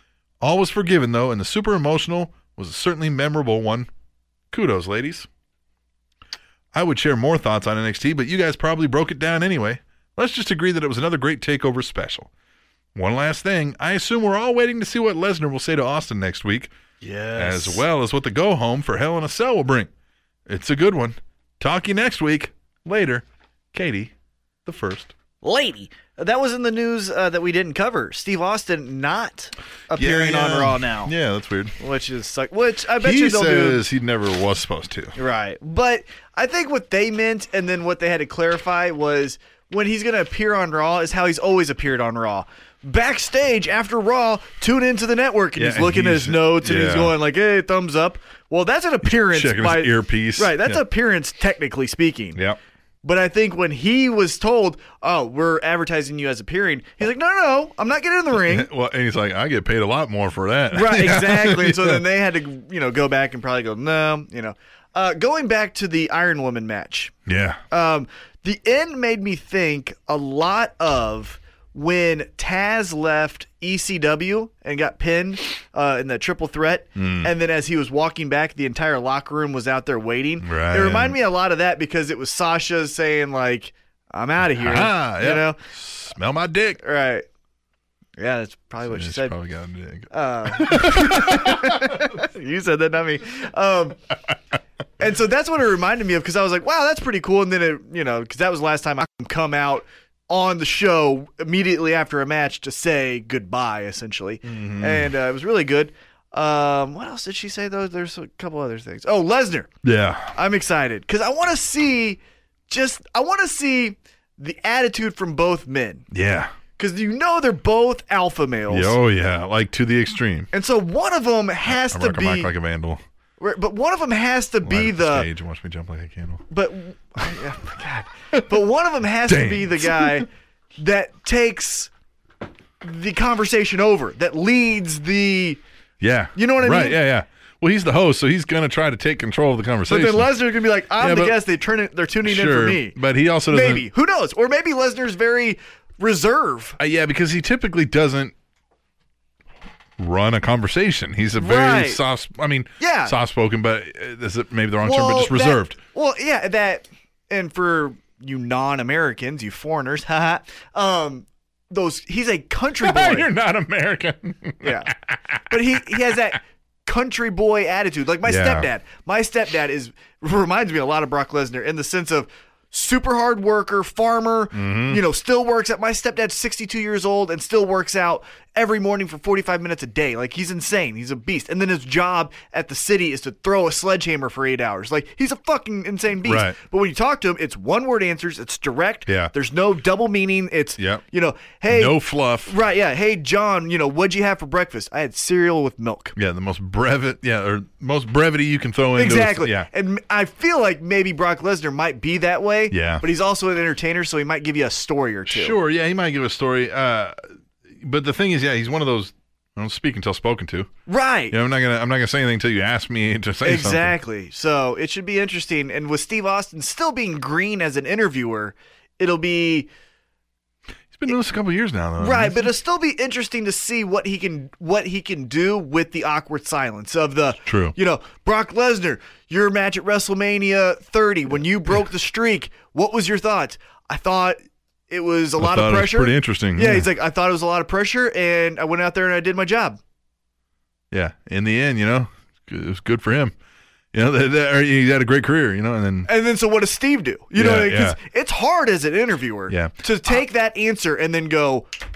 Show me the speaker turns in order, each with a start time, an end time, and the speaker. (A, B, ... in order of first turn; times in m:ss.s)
0:00.4-0:03.9 A
0:04.5-0:05.3 A
0:06.7-0:12.3 A
0:12.9-0:16.7 A
0:17.0-0:17.8 B
0:17.4-0:19.9 A
0:20.5-0:24.1 A
0:24.6-0:25.1 A
0:25.4-0:31.1 B
0:29.9-0:31.8 A
0:31.8-0:33.8 B
0:33.0-0:35.1 A
0:35.2-0:52.4 B
0:45.6-0:47.2 A
0:49.0-0:50.8 A
0:53.0-0:58.7 B
0:58.3-1:02.0 A
1:00.7-1:07.1 B
1:07.2-1:07.6 A
1:07.7-1:25.6 B
1:17.0-1:17.3 A
1:20.4-1:21.2 A
1:24.5-1:26.8 A
1:26.8-1:27.2 B
1:28.2-1:29.3 B
1:28.8-1:32.2 A
1:30.1-1:34.0 B
1:35.0-1:49.7 B
1:44.4-1:45.1 A
1:49.8-1:50.4 A
1:50.3-1:56.0 B
1:56.1-1:56.5 A
1:56.8-1:59.0 B
1:58.7-2:00.5 A
2:00.5-2:02.5 B
2:01.6-2:03.0 A
2:03.4-2:05.3 B
2:04.6-2:06.4 A
2:06.5-2:11.9 B
2:09.3-2:10.2 A
2:12.8-2:15.6 B
2:16.0-2:20.3 A
2:16.3-2:17.0 B
2:19.9-2:23.0 B
2:21.0-2:21.4 A
2:22.2-2:23.8 A
2:23.5-2:26.8 B
2:26.8-2:28.3 A
2:30.0-2:35.8 A
2:31.4-2:32.0 B
2:32.8-2:33.1 B
2:34.8-2:43.3 B
2:42.8-2:46.2 A
2:44.6-2:44.9 B
2:45.5-3:16.1 B
2:48.2-2:48.7 A
2:54.5-2:55.0 A
3:06.2-3:06.6 A
3:09.1-3:09.3 A
3:11.7-3:12.5 A
3:16.2-3:19.7 A
3:19.0-3:25.6 B
3:22.7-3:23.0 A
3:25.2-3:27.2 A
3:27.8-3:30.7 A
3:30.9-3:31.3 B
3:31.3-3:33.9 A
3:33.4-3:39.7 B
3:40.9-3:42.5 A
3:42.0-3:54.4 B
3:47.4-3:47.7 A
3:54.9-3:59.8 B
3:55.4-3:56.9 A
4:00.9-4:03.3 A
4:03.9-4:06.1 A
4:06.0-4:11.7 B
4:07.3-4:08.0 A